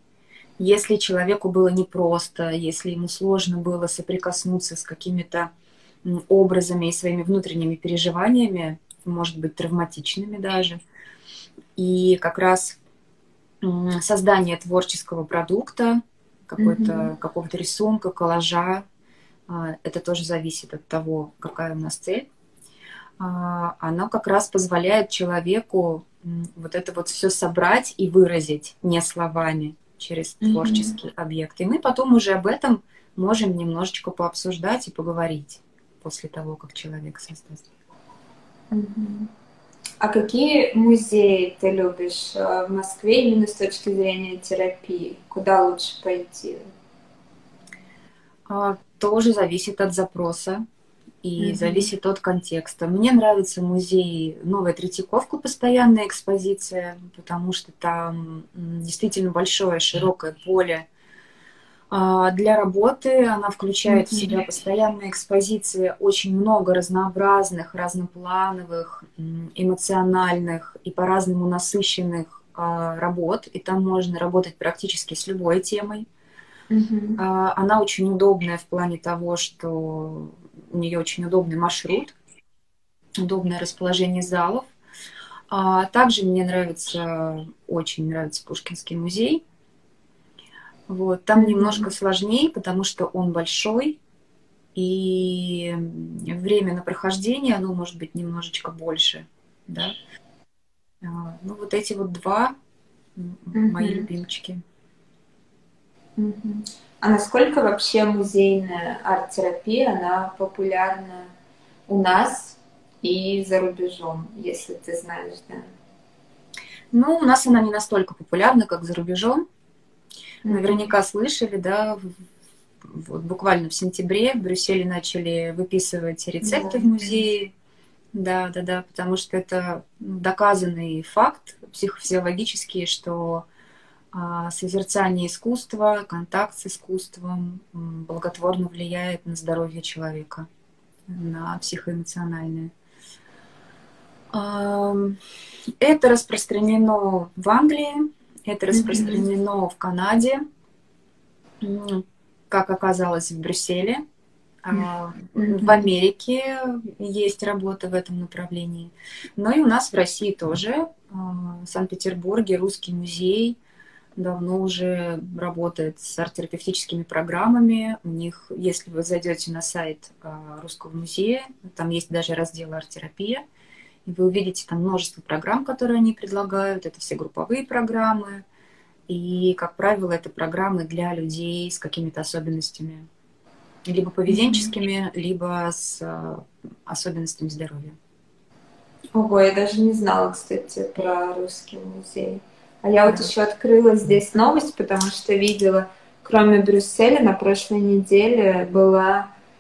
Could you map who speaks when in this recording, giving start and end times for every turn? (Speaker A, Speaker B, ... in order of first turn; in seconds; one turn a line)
Speaker A: 0.6-5.5
Speaker A: 6.0-10.8
Speaker A: 11.8-12.8
Speaker A: 13.6-18.9
Speaker B: 16.6-17.1
Speaker A: 19.5-22.3
Speaker A: 23.2-37.7
Speaker B: 30.4-30.9
Speaker B: 38.7-39.3
Speaker B: 40.0-46.6
Speaker A: 48.5-50.6
Speaker A: 51.2-60.9
Speaker B: 51.4-51.9
Speaker A: 61.9-76.1
Speaker B: 63.9-64.4
Speaker B: 76.7-77.2
Speaker A: 77.2-82.2
Speaker A: 83.2-84.7
Speaker A: 85.5-89.4
Speaker A: 90.9-94.0
Speaker B: 91.4-91.9
Speaker A: 94.8-99.9
Speaker A: 101.0-102.5
Speaker A: 103.2-104.6
Speaker B: 103.5-104.1
Speaker B: 106.2-111.3
Speaker B: 111.9-115.7
Speaker A: 116.9-119.5
Speaker B: 120.5-120.9
Speaker A: 120.5-122.1
Speaker A: 122.8-127.5
Speaker B: 126.4-127.0
Speaker A: 128.1-133.5
Speaker A: 134.1-140.5
Speaker A: 141.1-142.7
Speaker A: 144.3-145.2
Speaker A: 145.8-150.4
Speaker B: 148.7-149.2
Speaker A: 151.6-154.0
Speaker A: 154.6-163.6
Speaker B: 155.4-155.8
Speaker A: 164.2-173.4
Speaker A: 174.1-178.4
Speaker A: 179.1-183.1
Speaker A: 183.9-188.0
Speaker B: 184.3-184.7
Speaker B: 189.2-199.3